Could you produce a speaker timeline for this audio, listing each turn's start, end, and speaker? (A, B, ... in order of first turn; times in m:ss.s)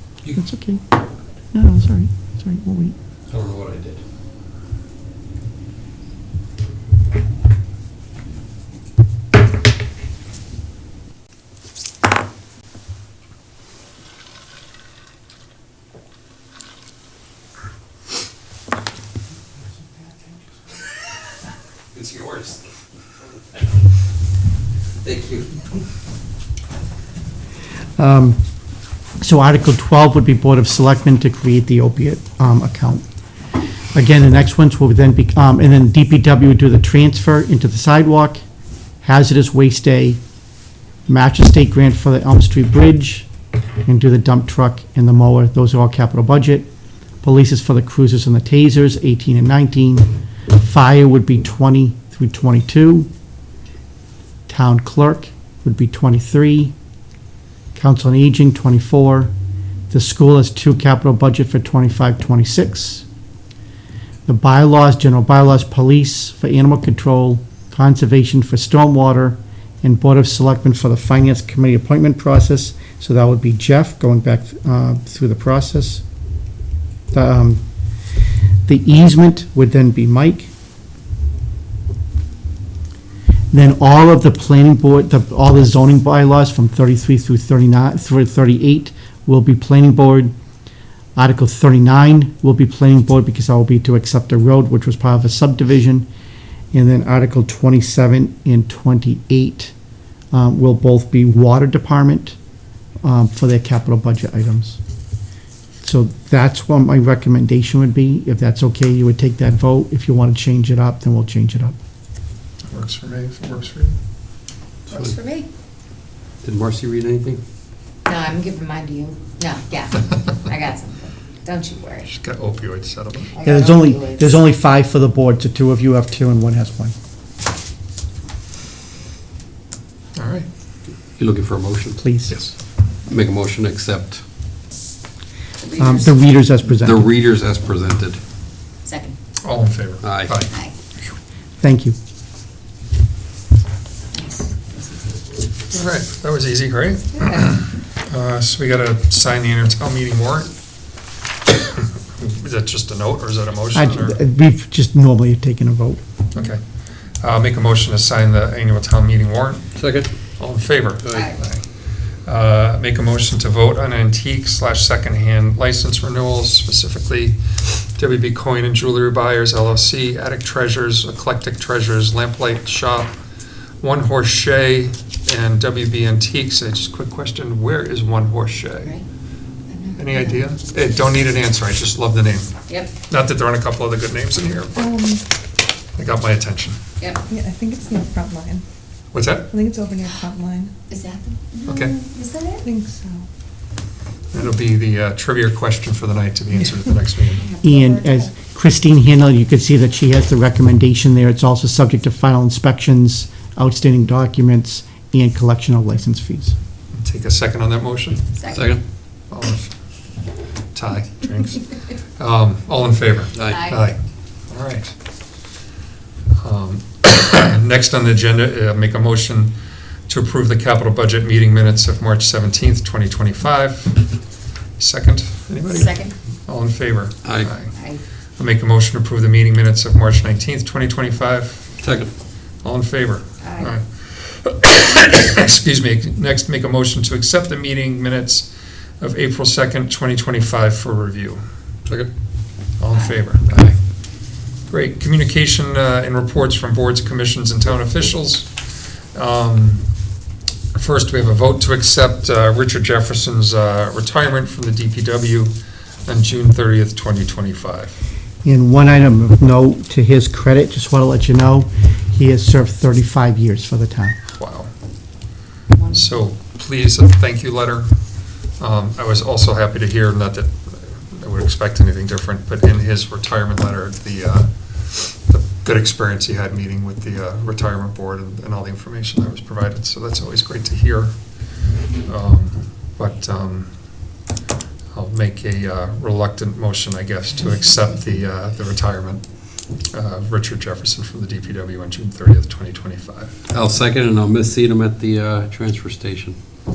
0:00.3-0:00.8 A
0:01.5-0:03.0 A
0:03.3-0:04.0 B
0:21.9-0:22.6 B
0:25.0-0:25.7 B
0:28.0-0:28.4 A
0:29.2-0:33.1 A
0:33.9-0:38.4 A
0:39.0-0:40.2 A
0:41.1-0:43.3 A
0:43.8-0:46.7 A
0:47.2-0:53.1 A
0:54.5-0:56.7 A
0:57.8-0:59.3 A
0:59.9-1:03.0 A
1:04.3-1:16.0 A
1:17.1-1:17.6 A
1:18.7-1:20.5 A
1:23.5-1:30.3 A
1:31.2-1:36.1 A
1:36.7-1:39.7 A
1:40.3-1:42.4 A
1:43.0-1:44.8 A
1:45.8-1:51.8 A
1:52.7-1:54.0 C
1:54.9-1:55.5 D
1:56.4-1:57.4 B
1:58.1-2:02.1 D
2:02.1-2:03.3 C
2:03.3-2:04.4 D
2:03.4-2:07.0 A
2:10.2-2:10.5 C
2:11.2-2:12.0 B
2:12.0-2:12.3 A
2:12.3-2:12.5 C
2:13.1-2:14.2 B
2:15.6-2:16.1 D
2:15.8-2:17.1 A
2:16.8-2:18.2 B
2:18.8-2:19.2 D
2:19.4-2:20.5 C
2:20.0-2:20.3 B
2:20.5-2:20.7 D
2:21.6-2:22.0 A
2:24.1-2:25.2 D
2:25.7-2:30.5 C
2:27.2-2:27.5 D
2:31.5-2:34.2 C
2:33.7-2:36.0 A
2:36.3-2:36.6 C
2:37.2-2:39.6 C
2:39.8-2:40.1 B
2:40.4-2:41.6 C
2:41.0-2:41.3 B
2:41.1-2:41.4 D
2:42.3-2:47.4 C
2:48.0-2:53.1 C
2:53.8-2:59.0 C
2:59.7-3:00.4 D
3:00.0-3:02.5 C
3:02.7-3:02.9 D
3:03.1-3:04.7 C
3:04.8-3:05.2 E
3:06.0-3:06.8 C
3:07.0-3:07.2 D
3:07.3-3:08.6 E
3:09.1-3:09.5 C
3:09.5-3:10.7 E
3:10.9-3:12.6 D
3:11.7-3:11.9 C
3:12.6-3:13.3 E
3:14.3-3:17.4 C
3:17.4-3:18.1 D
3:17.6-3:26.6 A
3:27.0-3:28.3 C
3:28.4-3:28.7 D
3:28.5-3:28.8 B
3:29.3-3:29.7 C
3:30.8-3:31.7 C
3:32.2-3:34.0 C
3:33.4-3:33.7 B
3:33.5-3:33.9 D
3:34.5-3:34.9 C
3:36.4-3:39.5 C
3:40.1-3:44.0 C
3:44.8-3:46.0 C
3:45.7-3:46.1 D
3:46.5-3:47.7 C
3:47.2-3:47.5 B
3:47.7-3:48.0 D
3:48.4-3:51.7 C
3:51.8-3:52.1 B
3:52.6-3:58.5 C
3:53.4-3:53.7 D
3:59.0-4:01.4 C
4:02.8-4:03.8 C
4:04.7-4:08.5 C
4:09.1-4:09.9 C
4:10.8-4:15.5 C
4:16.1-4:18.0 C
4:18.4-4:24.2 A
4:24.4-4:24.7 C
4:25.7-4:26.1 D
4:25.9-4:27.9 C
4:28.6-4:41.1 C
4:42.0-4:43.7 C
4:44.9-4:49.2 C
4:49.9-4:53.4 C
4:53.5-4:56.4 B